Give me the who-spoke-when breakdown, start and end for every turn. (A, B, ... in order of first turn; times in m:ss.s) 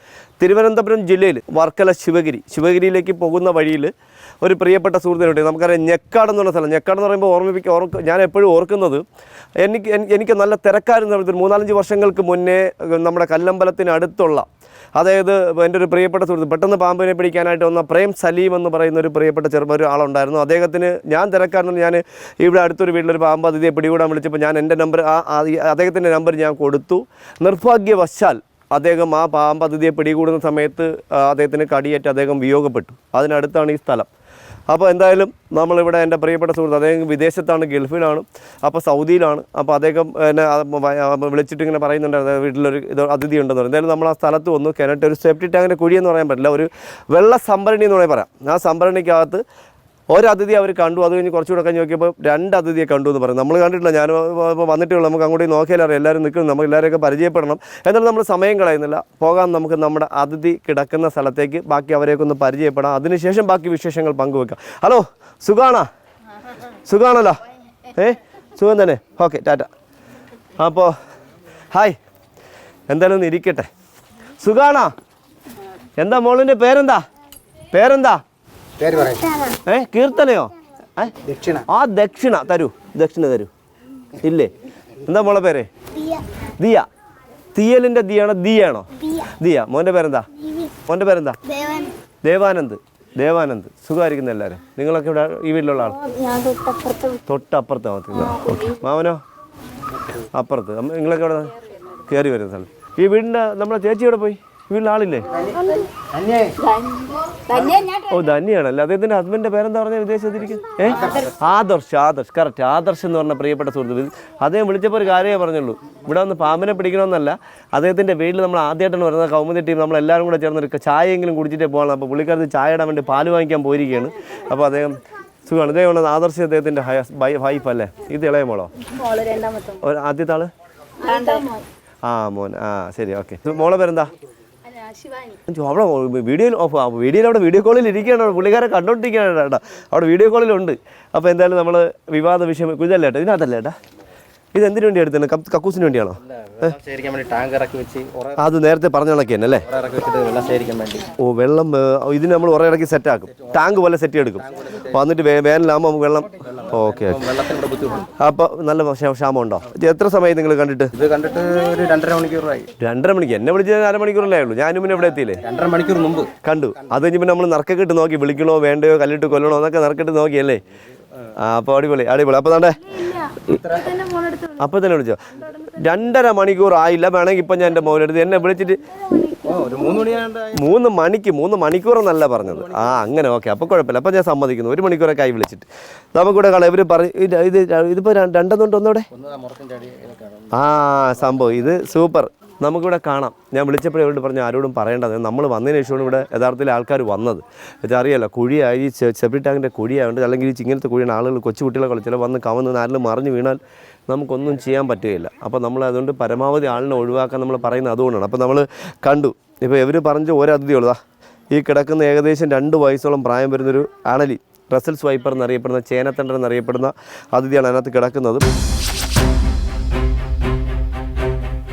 0:00.4-0:09.0 A
0:09.6-0:34.1 A
0:34.7-0:49.4 A
0:50.1-1:05.9 A
1:06.8-1:07.4 A
1:07.9-1:09.7 A
1:10.6-1:10.9 A
1:11.7-1:12.0 A
1:12.9-1:13.7 A
1:14.4-1:14.9 A
1:16.0-1:17.0 A
1:17.7-1:18.2 A
1:18.8-1:19.4 B
1:19.6-1:23.5 A
1:21.3-1:21.6 B
1:24.2-1:25.7 A
1:26.6-1:26.9 A
1:27.5-1:31.4 A
1:31.5-1:31.9 C
1:32.2-1:36.1 A
1:36.0-1:37.2 C
1:37.2-1:39.2 A
1:40.2-1:45.3 A
1:45.6-1:45.9 C
1:46.1-1:46.6 B
1:46.6-1:48.1 C
1:48.1-2:08.7 A
2:08.8-2:09.8 C
2:09.8-2:10.5 A
2:11.0-2:11.6 C
2:12.0-2:14.1 A
2:14.7-2:15.4 C
2:15.4-2:23.7 A
2:24.5-2:26.8 A
2:26.4-2:28.4 B
2:28.3-2:29.7 A
2:29.7-2:31.1 B
2:31.1-2:37.4 A
2:34.6-2:34.9 B
2:36.4-2:38.1 B
2:38.1-2:41.0 A
2:41.0-2:42.7 B
2:42.8-2:45.5 A
2:45.4-2:46.3 B
2:46.4-2:50.6 A
2:51.3-2:53.3 A
2:53.4-2:54.2 B
2:54.4-2:58.8 A
2:59.3-3:00.6 B
3:00.5-3:09.1 A
3:09.1-3:10.5 B
3:10.5-3:31.0 A
3:31.5-3:38.4 A